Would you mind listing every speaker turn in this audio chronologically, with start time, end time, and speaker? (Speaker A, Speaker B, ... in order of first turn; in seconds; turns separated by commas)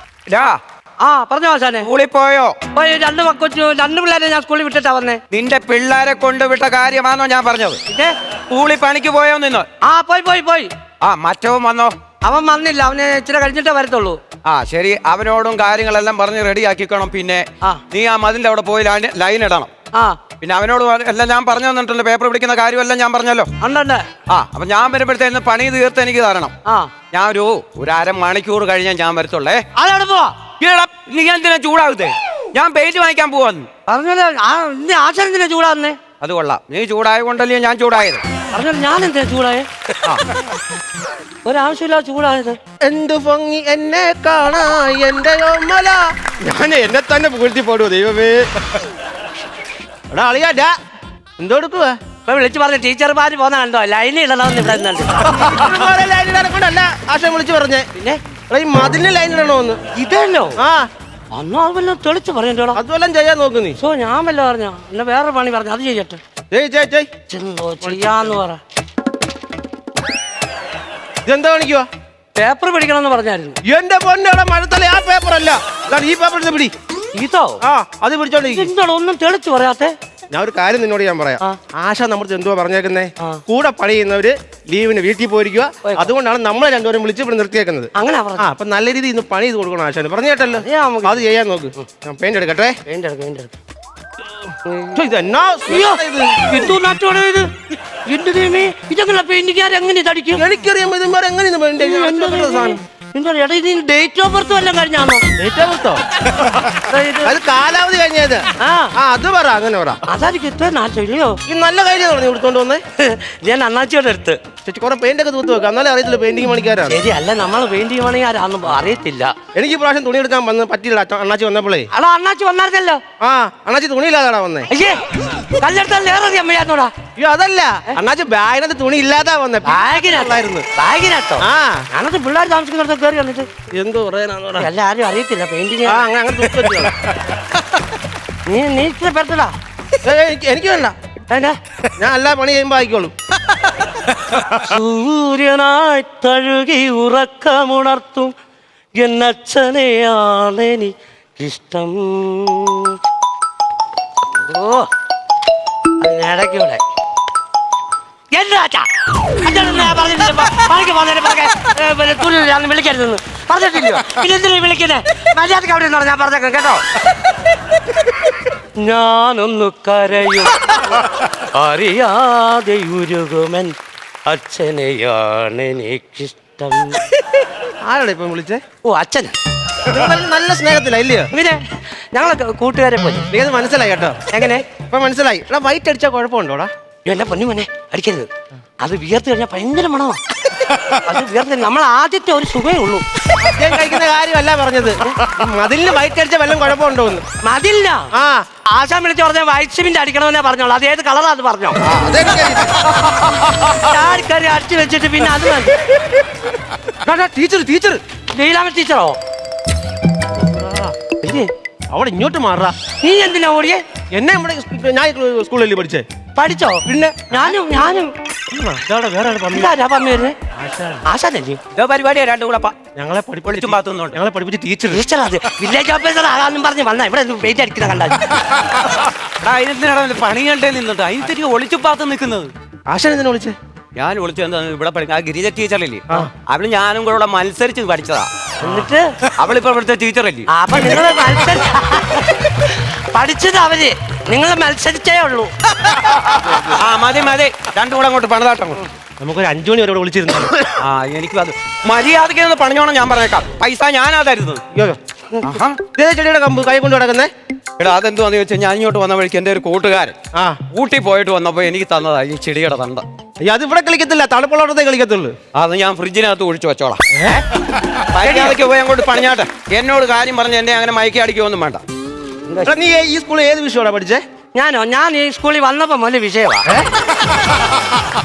Speaker A: 0.3-0.6, Speaker B: 1.0-1.9, Speaker A: 1.8-2.6, Speaker B: 2.7-5.2, Speaker A: 5.3-7.8, Speaker B: 7.9-8.2, Speaker A: 8.5-9.7, Speaker B: 9.8-10.7, Speaker A: 11.0-11.9, Speaker B: 12.2-14.2, Speaker A: 14.4-19.7, Speaker B: 19.9-20.2, Speaker A: 20.4-23.5, Speaker B: 23.6-24.1, Speaker A: 24.3-26.5, Speaker B: 26.7-26.9, Speaker A: 27.1-29.6, Speaker B: 29.8-30.4, Speaker A: 30.6-33.7, Speaker B: 33.9-36.0, Speaker A: 36.2-38.2, Speaker B: 38.5-39.7, Speaker B: 41.5-42.6, Speaker C: 42.8-48.5, Speaker C: 50.1-50.7, Speaker C: 51.4-52.0, Speaker B: 52.3-55.4, Speaker C: 55.2-57.9, Speaker C: 58.5-59.8, Speaker B: 60.0-60.6, Speaker C: 60.6-60.9, Speaker B: 61.3-62.8, Speaker C: 62.7-63.8, Speaker B: 63.8-66.2, Speaker C: 66.5-67.1, Speaker B: 67.3-68.6, Speaker C: 67.9-68.1, Speaker C: 71.2-71.9, Speaker B: 72.3-73.6, Speaker C: 73.6-76.7, Speaker B: 77.2-77.6, Speaker C: 77.6-78.7, Speaker B: 78.5-79.9, Speaker C: 80.3-92.8, Speaker B: 85.8-86.1, Speaker B: 88.0-88.5, Speaker B: 90.6-91.2, Speaker B: 92.9-93.5, Speaker B: 94.5-95.0, Speaker C: 94.9-96.7, Speaker B: 95.7-97.5, Speaker B: 98.1-100.5, Speaker C: 100.4-102.8, Speaker B: 101.8-105.2, Speaker C: 105.4-106.0, Speaker B: 106.7-107.3, Speaker C: 107.2-110.0, Speaker B: 108.6-108.9, Speaker B: 110.1-111.4, Speaker C: 111.5-112.8, Speaker B: 113.0-114.4, Speaker C: 114.7-117.0, Speaker B: 116.9-119.3, Speaker C: 119.5-121.9, Speaker B: 121.9-123.0, Speaker C: 123.2-124.7, Speaker B: 124.7-126.9, Speaker C: 127.2-130.7, Speaker B: 129.6-133.5, Speaker C: 131.4-131.8, Speaker C: 133.7-134.7, Speaker B: 134.6-136.1, Speaker C: 135.8-136.9, Speaker B: 138.5-139.5, Speaker C: 140.0-140.9, Speaker B: 141.3-141.6, Speaker C: 142.0-143.1, Speaker B: 144.5-148.3, Speaker B: 149.0-153.0, Speaker B: 154.4-154.9, Speaker B: 156.0-156.8, Speaker B: 158.3-166.8, Speaker B: 168.8-173.8, Speaker B: 174.3-177.0, Speaker C: 177.8-178.6, Speaker B: 178.8-179.3, Speaker C: 179.9-181.3, Speaker B: 181.3-181.6, Speaker B: 182.1-183.3, Speaker C: 183.3-184.2, Speaker B: 184.3-184.7, Speaker C: 184.9-186.7, Speaker B: 187.1-188.3, Speaker B: 188.8-190.2, Speaker B: 190.9-193.1, Speaker C: 193.4-197.2, Speaker B: 197.4-198.1, Speaker C: 198.1-198.4, Speaker B: 198.7-201.8, Speaker C: 201.8-203.1, Speaker B: 203.6-205.8, Speaker C: 207.0-208.0, Speaker B: 208.3-209.2, Speaker C: 210.5-210.9, Speaker B: 211.2-211.5, Speaker C: 211.9-212.8, Speaker B: 213.0-213.8, Speaker C: 214.1-216.1, Speaker B: 216.4-218.1, Speaker C: 216.9-217.6, Speaker C: 218.5-219.7, Speaker B: 219.5-220.4, Speaker C: 220.6-221.0, Speaker B: 221.1-221.6, Speaker A: 221.8-222.8, Speaker C: 223.0-225.0, Speaker A: 223.4-224.2, Speaker B: 224.9-228.4, Speaker A: 229.4-232.5, Speaker C: 232.9-233.6, Speaker A: 234.0-238.3, Speaker B: 238.6-239.1, Speaker A: 239.4-240.5, Speaker B: 240.5-245.5, Speaker A: 246.0-248.8, Speaker C: 249.2-250.6, Speaker A: 250.8-254.6, Speaker C: 254.7-255.0, Speaker A: 255.4-255.8, Speaker C: 255.9-257.3, Speaker A: 257.8-260.2, Speaker A: 260.7-263.0, Speaker C: 263.4-265.4, Speaker A: 265.6-267.0, Speaker C: 267.1-267.4, Speaker A: 268.1-271.8, Speaker B: 272.5-272.7, Speaker C: 272.6-274.2, Speaker B: 274.6-276.7